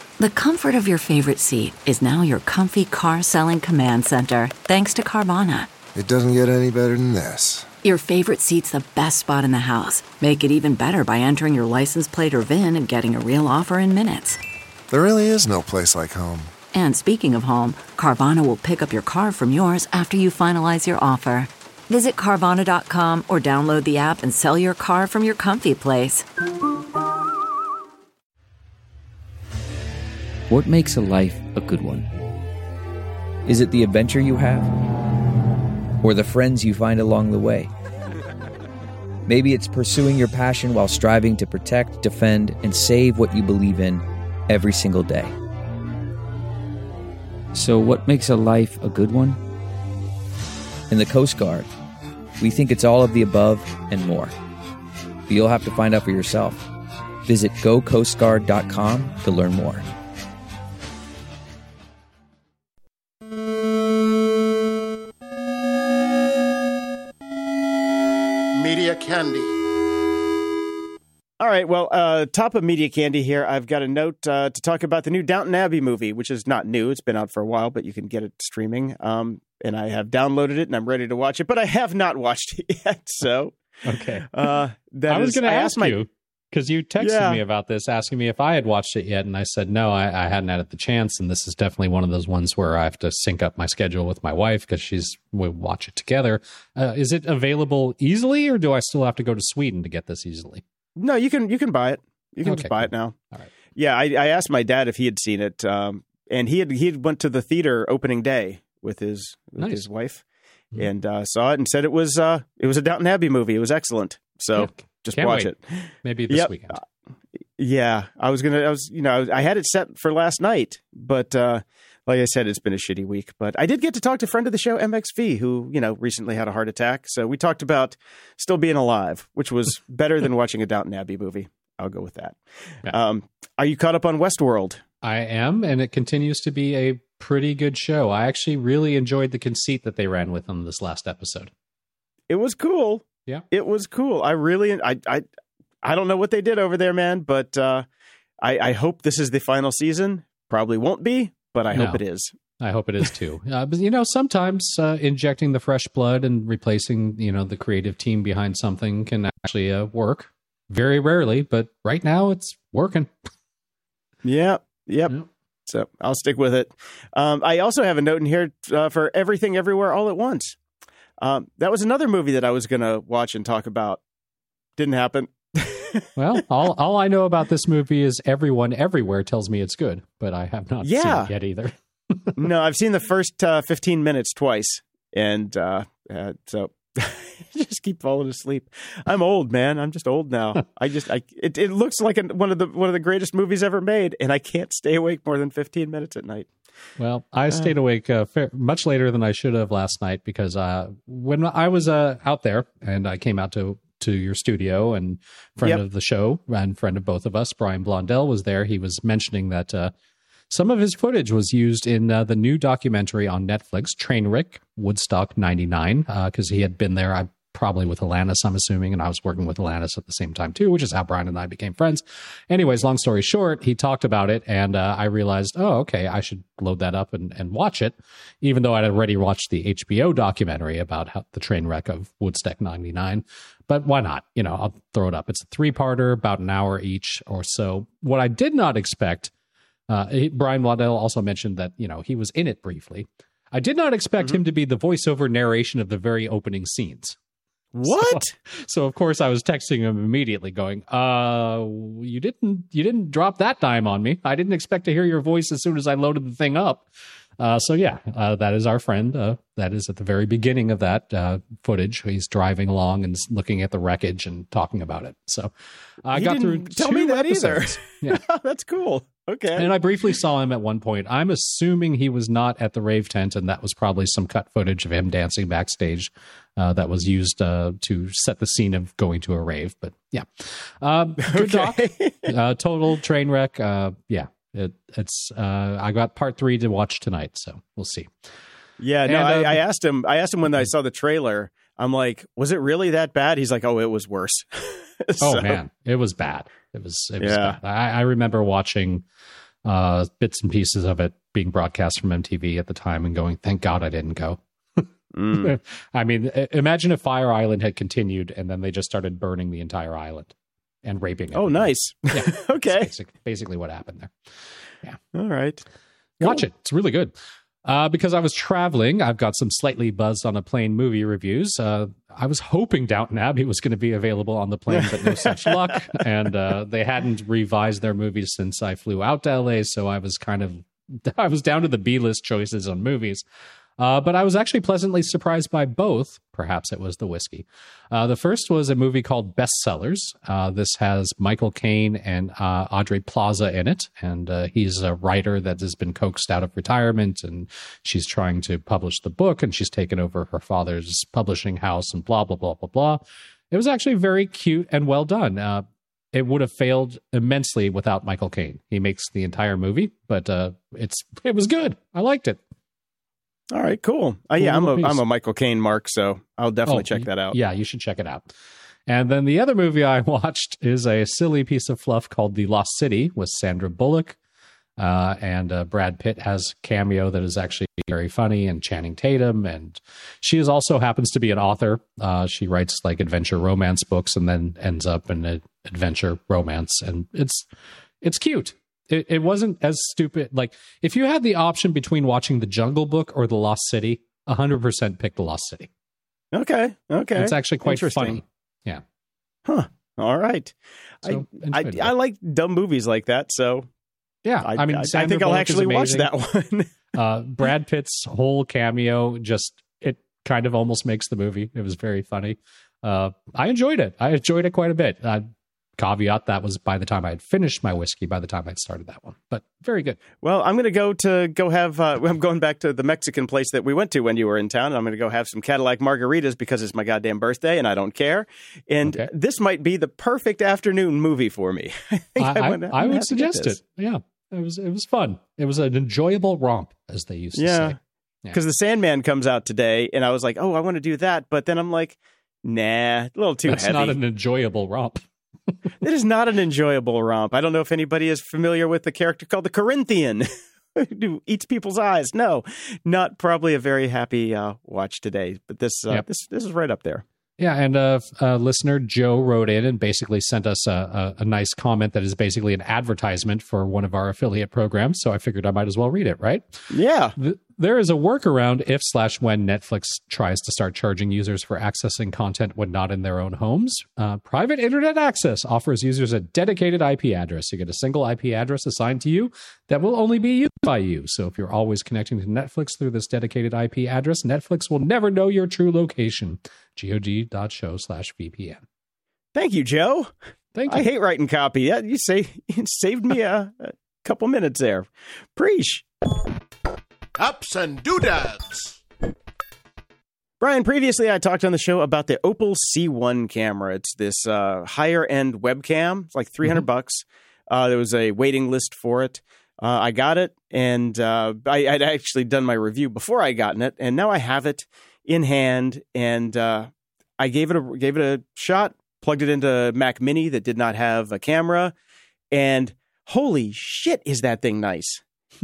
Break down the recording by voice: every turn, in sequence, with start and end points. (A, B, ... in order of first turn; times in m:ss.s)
0:00.2-0:05.8 A
0:05.9-0:07.7 B
0:07.8-0:14.4 A
0:14.9-0:16.5 B
0:16.7-0:26.2 A
0:30.5-0:32.1 C
0:33.4-0:34.7 C
0:36.0-0:37.7 C
0:39.2-0:45.3 C
0:47.5-0:49.4 C
0:50.9-0:51.7 C
0:52.4-0:54.4 C
0:55.3-0:56.7 C
0:57.2-0:59.9 C
1:08.5-1:09.6 D
1:11.4-1:23.6 E
1:23.9-1:24.3 F
1:24.3-1:26.0 E
1:25.1-1:40.6 F
1:27.0-1:27.4 E
1:41.0-1:43.2 E
1:42.4-1:43.5 F
1:43.7-1:50.2 E
1:49.6-1:49.8 F
1:50.7-1:56.8 E
1:54.6-1:55.5 F
1:56.0-1:56.8 F
1:57.6-2:14.8 E
2:15.0-2:21.5 F
2:22.3-2:25.3 E
2:25.8-2:27.9 E
2:28.4-2:32.3 E
2:31.7-2:32.0 F
2:32.6-2:43.1 F
2:44.2-2:50.6 E
2:51.2-2:54.0 E
2:54.8-2:56.1 E
2:56.2-3:02.4 F
3:00.8-3:01.3 E
3:02.4-3:16.5 E
3:17.0-3:29.9 F
3:30.5-3:59.3 F
3:59.9-4:07.2 F
4:07.7-4:08.3 E
4:07.9-4:16.9 F
4:17.4-4:25.5 F
4:26.0-4:28.2 F
4:26.1-4:29.7 E
4:29.6-4:48.1 F
4:41.2-4:42.3 E
4:48.8-4:55.6 E
4:49.1-4:49.6 F
4:55.2-4:59.0 F
4:57.2-4:57.6 E
4:59.6-5:10.3 F
5:05.1-5:05.6 E
5:10.8-5:14.1 F
5:11.3-5:12.9 E
5:15.1-5:15.6 E
5:16.2-5:16.4 E
5:16.2-5:17.1 F
5:17.6-5:33.2 F
5:24.7-5:25.6 E
5:33.8-6:02.4 F
6:03.5-6:07.4 E
6:04.4-6:05.0 F
6:06.7-6:08.3 F
6:08.9-6:14.2 F
6:14.8-6:27.4 F
6:28.0-6:35.7 F
6:36.3-6:38.2 E
6:37.1-6:38.8 F
6:39.4-6:43.7 E
6:41.0-6:41.9 F
6:44.2-6:46.1 F
6:44.4-6:46.7 E
6:46.9-7:00.0 F
7:00.2-7:13.6 E
7:08.8-7:09.1 F
7:12.2-7:18.4 F
7:17.3-7:17.8 E
7:18.3-7:24.0 E
7:23.5-7:25.0 F
7:25.8-7:37.0 E
7:37.4-7:46.6 F
7:46.7-7:47.2 E
7:47.2-8:08.6 F
8:09.3-8:10.1 E
8:10.6-8:10.8 F
8:10.7-8:15.8 E
8:17.2-8:18.8 D
8:20.4-8:41.7 E
8:42.3-8:45.0 E